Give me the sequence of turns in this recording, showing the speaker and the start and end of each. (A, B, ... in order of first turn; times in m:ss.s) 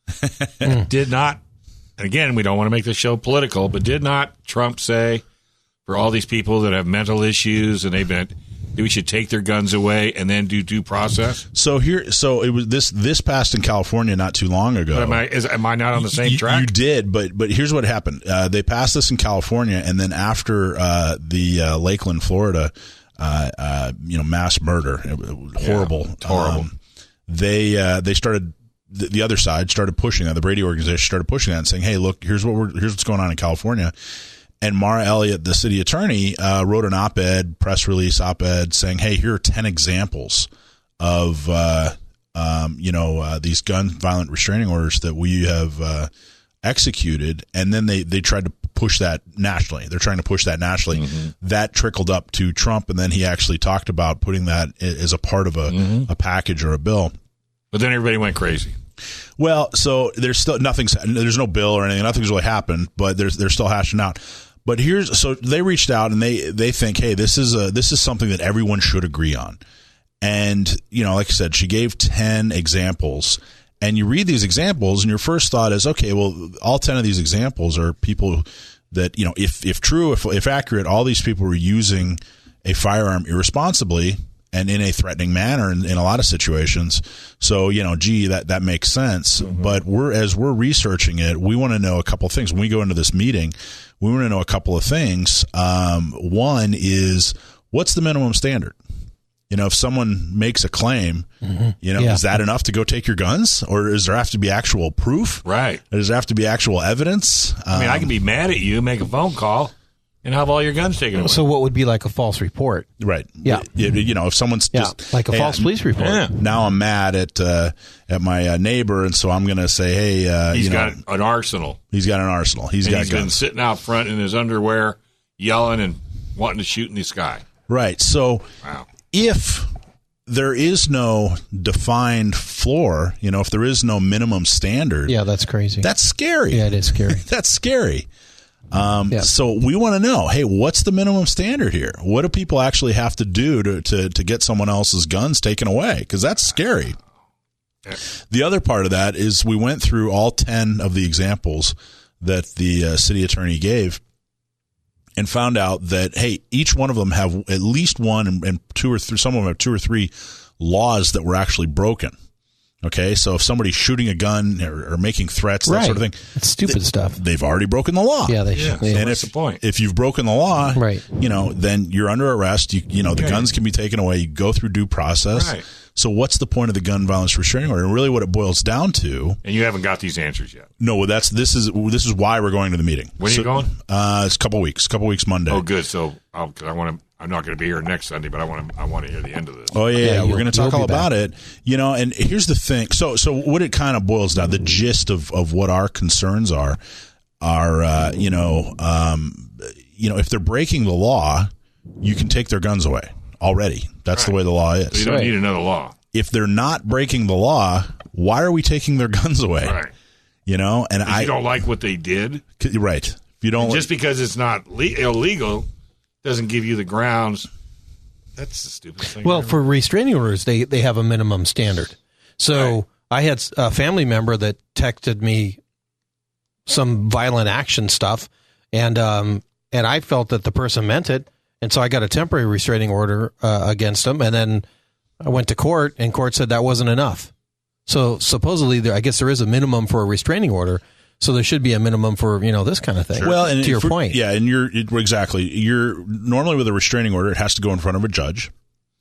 0:00.6-0:01.4 A
0:02.0-0:05.2 A
0:05.9-0:11.4 A
0:11.5-0:15.2 B
0:14.9-0:16.7 A
0:16.0-0:26.8 B
0:25.6-0:26.7 A
0:27.3-0:33.9 B
0:34.6-0:40.5 B
0:41.0-0:46.1 B
0:46.6-0:57.1 B
0:51.0-0:51.3 A
0:55.7-0:56.1 A
0:57.7-0:58.8 A
0:59.4-1:09.6 B
1:10.2-1:38.8 B
1:39.5-1:41.3 B
1:41.4-1:42.3 C
1:41.8-1:48.1 B
1:45.4-1:45.8 A
1:47.7-1:49.7 A
1:50.2-1:51.5 A
1:51.2-1:52.9 C
1:53.0-2:01.0 B
1:54.7-1:56.3 C
1:56.0-1:56.3 A
2:00.5-2:01.8 A
2:01.9-2:03.4 B
2:02.8-2:07.4 A
2:07.7-2:08.5 B
2:08.6-2:08.9 A
2:09.1-2:09.7 B
2:10.3-2:15.1 B
2:15.1-2:15.9 C
2:15.8-2:18.1 B
2:16.5-2:17.2 C
2:18.7-2:27.0 B
2:28.2-2:34.0 B
2:35.2-2:42.2 B
2:42.8-2:59.4 B
2:45.6-2:47.2 C
2:48.3-2:49.0 C
2:48.5-2:49.6 A
2:50.8-2:51.0 C
2:53.2-2:53.5 A
2:55.3-2:55.6 A
2:59.4-3:00.7 A
3:00.8-3:05.7 B
3:03.2-3:03.7 A
3:05.5-3:09.8 A
3:09.7-3:16.8 B
3:10.0-3:11.1 C
3:17.4-3:21.5 B
3:22.0-3:25.2 B
3:24.9-3:26.0 A
3:25.0-3:25.4 C
3:26.1-3:29.8 B
3:29.6-3:29.9 A
3:30.5-3:31.4 B
3:31.0-3:32.4 A
3:32.6-3:33.9 B
3:33.6-3:35.7 A
3:36.2-3:37.5 A
3:38.4-3:39.6 A
3:39.2-3:45.6 C
3:46.7-3:54.6 C
3:55.2-3:57.3 C
3:57.9-4:04.2 C
4:03.2-4:08.5 B